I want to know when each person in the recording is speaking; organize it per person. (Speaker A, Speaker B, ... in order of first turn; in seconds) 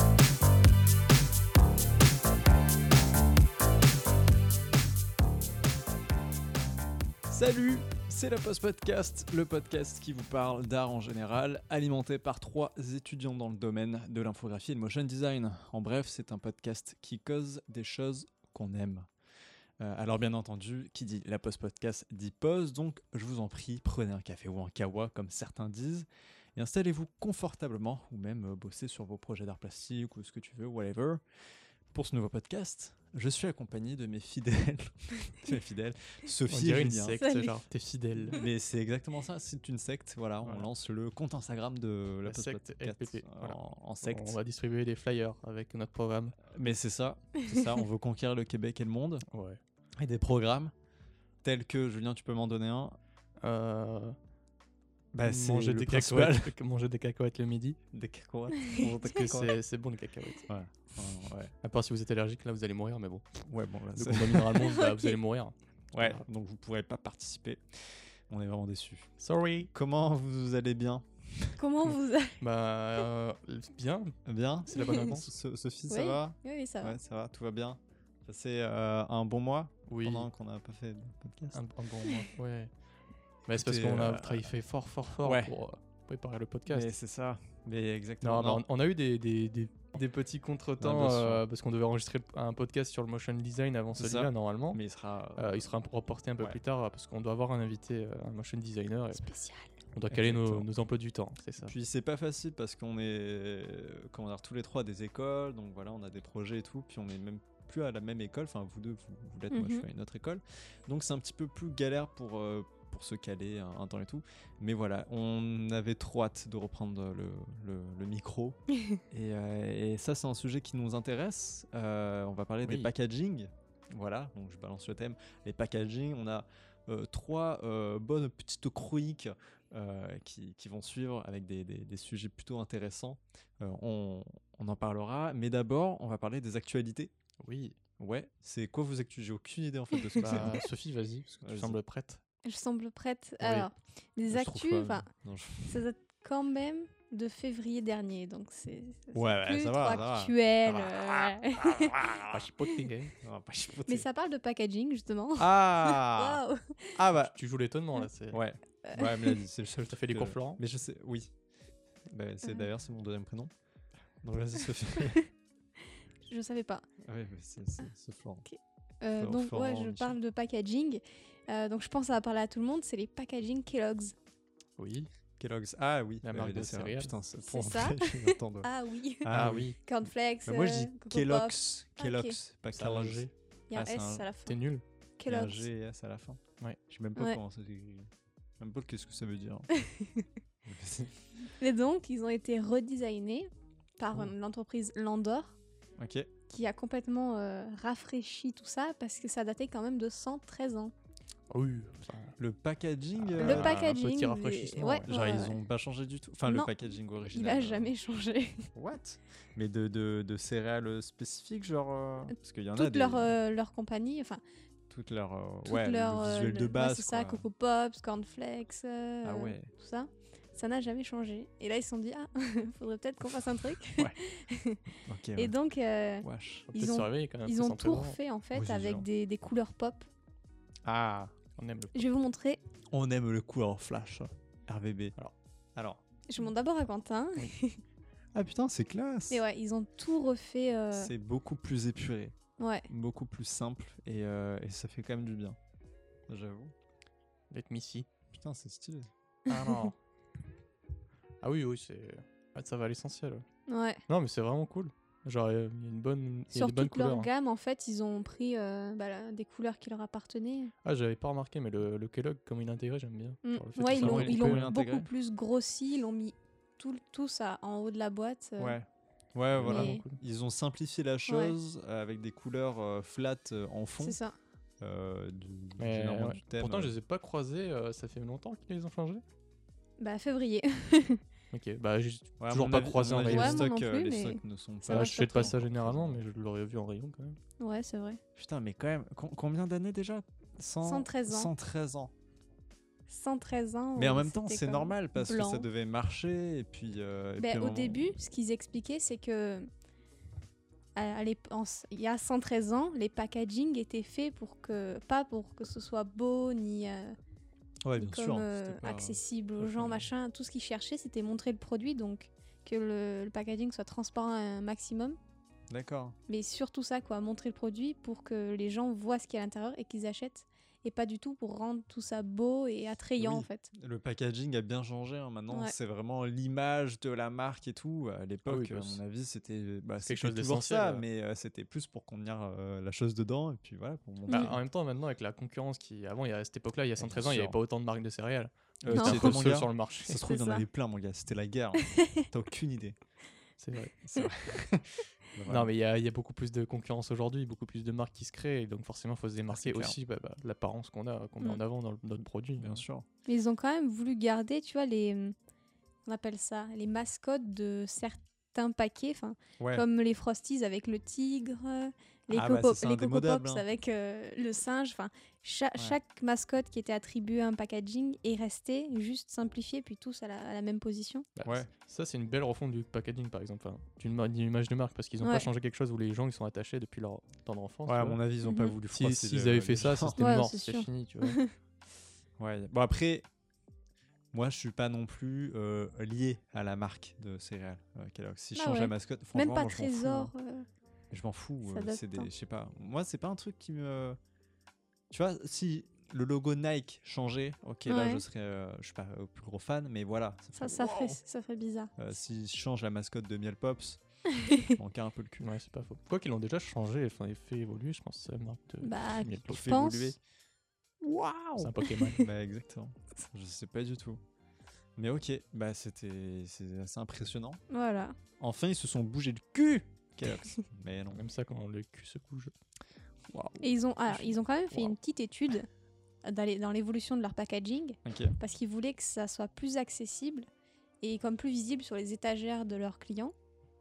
Speaker A: 7.3-19.1, 19.8-31.2, 31.9-37.2, 38.2-44.4, 46.5-49.2, 50.0-50.7, 51.4-53.0, 55.1-56.5, 57.9-59.5, 60.5-61.5, 63.5-64.7, 65.9-69.1, 69.7-71.6, 74.2-81.6, 83.5-84.5, 85.2-85.5, 86.7-88.6, 90.8-91.5, 93.9-95.7, 100.1-100.7, 101.6-118.6, 119.1-137.1, 138.0-140.6, 141.4-141.8, 144.3-145.8, 149.1-152.5, 153.2-154.1, 155.4-156.4, 157.0-157.3, 158.3-161.3, 162.1-163.5, 164.2-165.2, 167.0-168.4, 169.2-170.2, 175.4-178.7, 179.2-179.8, 180.5-184.3, 185.3-189.7, 190.7-191.1, 196.0-196.3, 202.4-203.8, 205.1-207.9, 208.8-213.3, 214.9-217.5, 219.2-219.7, 225.0-225.5, 226.2-226.7, 228.5-229.1, 230.8-231.3, 232.9-235.2, 235.8-236.0, 238.3-239.4, 240.9-242.3, 242.9-245.6, 246.3-246.7, 248.3-249.1, 263.9-265.1, 268.6-274.2, 274.8-276.9, 282.4-286.2, 288.4-292.1, 294.0-298.1, 307.8-310.0, 315.7-316.1, 323.2-334.6, 337.0-337.6, 338.8-342.9, 344.0-345.7, 349.5-349.9, 352.2-353.0, 359.6-359.8, 362.3-363.6, 371.4-371.7, 377.9-380.2, 382.4-383.2, 384.3-390.3, 391.1-394.2, 395.1-401.2, 402.0-404.0, 404.6-405.5, 409.4-410.2, 411.0-414.2, 415.0-417.6, 418.4-421.2, 423.3-424.9, 428.0-428.3
Speaker B: 36.5-38.4, 40.4-40.7, 42.3-46.5, 49.3-49.6, 53.4-54.2, 55.2-57.8, 59.1-60.5, 61.6-63.4, 63.9-66.2, 69.2-69.7, 71.8-74.1, 74.7-75.3, 79.9-80.3, 81.5-82.7, 83.5-86.9, 88.2-94.8, 95.4-99.2, 99.9-101.7, 137.4-137.8, 140.2-142.2, 143.4-143.7, 152.3-153.1, 157.2-158.4, 159.9-160.6, 174.8-175.1, 176.2-177.2, 179.3-179.8, 182.7-183.3, 184.5-184.8, 201.5-202.3, 203.2-205.1, 226.7-228.2, 231.6-232.1, 247.5-248.1, 249.5-250.0, 251.4-253.4, 254.1-257.3, 260.8-264.7, 269.5-270.2, 275.8-279.2, 281.5-283.7, 284.9-287.4, 328.4-329.0, 330.0-331.0, 334.3-340.2, 343.6-343.9, 345.5-352.8, 371.4-378.2, 378.9-381.4, 405.4-409.7, 411.6-412.2, 421.1-422.5
Speaker C: 37.2-37.6, 64.7-65.1, 71.6-72.4, 75.9-77.0, 99.1-99.7, 109.5-109.9, 142.4-145.1, 145.6-152.1, 153.8-157.0, 158.8-159.4, 166.3-166.8, 168.4-174.2, 177.4-179.3, 179.8-182.3, 183.7-184.6, 185.2-185.7, 189.8-190.2, 191.6-195.6, 196.5-200.9, 203.4-205.5, 206.5-206.7, 207.2-208.7, 212.8-214.4, 215.7-230.1, 231.9-232.6, 236.3-237.8, 239.3-241.1, 242.6-242.9, 253.7-254.0, 256.5-260.7, 263.4-268.8, 269.6-270.0, 271.3-271.5, 274.0-274.4, 280.0-281.2, 283.2-285.6, 287.6-288.2, 290.8-291.5, 293.1-295.7, 297.4-299.7, 300.9-307.1, 307.9-315.2, 316.3-323.7, 334.3-334.5, 338.9-339.4, 340.2-340.6, 341.9-342.2, 353.3-355.3, 356.1-371.3, 375.2-375.5, 378.4-378.7, 380.2-381.5, 388.5-390.6, 391.7-392.3, 397.9-398.2, 400.6-401.9, 404.3-404.7, 408.8-410.1, 412.0-412.2, 417.7-418.2, 423.6-425.7, 426.2-430.5, 431.0-433.3